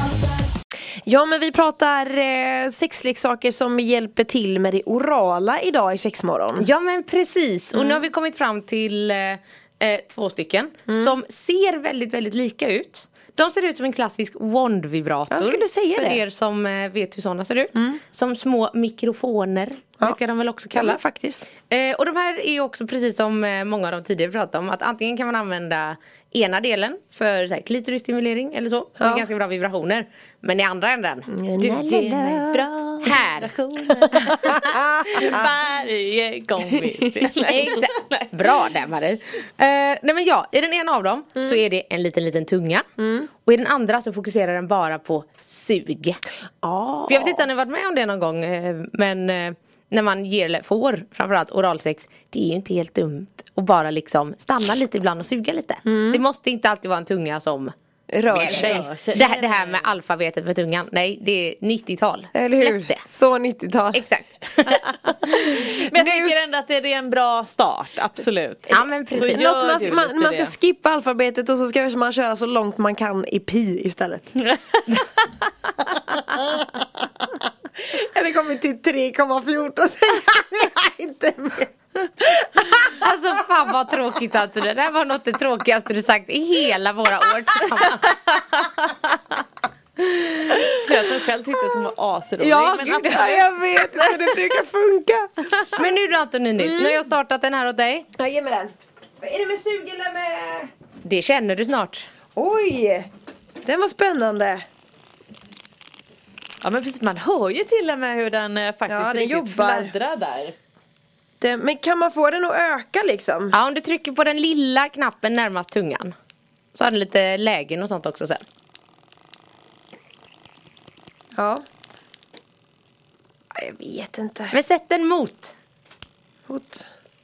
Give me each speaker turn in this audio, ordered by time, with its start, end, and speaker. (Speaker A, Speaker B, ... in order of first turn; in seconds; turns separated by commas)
Speaker A: 1.1-6.7, Speaker B: 6.6-21.1, Speaker A: 7.7-8.1, Speaker A: 10.9-11.2, Speaker A: 15.3-16.2, Speaker A: 20.7-21.4, Speaker B: 21.7-31.3, Speaker A: 29.0-29.3, Speaker A: 31.3-32.6, Speaker C: 31.6-38.7, Speaker B: 33.0-33.5, Speaker A: 34.2-35.5, Speaker B: 37.5-42.9, Speaker A: 43.0-43.3, Speaker B: 43.4-46.2, Speaker A: 46.6-47.5, Speaker B: 47.1-57.7, Speaker A: 55.8-56.2, Speaker A: 58.1-58.9, Speaker C: 58.3-59.9, Speaker B: 58.3-63.0, Speaker A: 62.3-64.0, Speaker B: 63.9-65.1, Speaker A: 65.2-66.3, Speaker C: 65.3-70.5, Speaker B: 68.7-69.6, Speaker A: 69.1-74.4, Speaker A: 76.2-76.8, Speaker A: 77.8-83.0, Speaker B: 82.9-88.1, Speaker A: 90.5-90.8, Speaker C: 90.8-93.3, Speaker B: 92.4-93.4, Speaker A: 92.9-95.8, Speaker B: 95.7-98.1, Speaker A: 96.6-97.1, Speaker A: 98.1-100.7, Speaker B: 101.0-102.1, Speaker A: 102.3-103.1, Speaker A: 103.6-104.6, Speaker C: 106.6-110.5, Speaker A: 108.9-109.9, Speaker A: 111.4-113.5, Speaker B: 113.5-116.1, Speaker B: 116.7-118.4, Speaker A: 123.5-124.5, Speaker B: 124.5-125.5, Speaker A: 126.5-126.8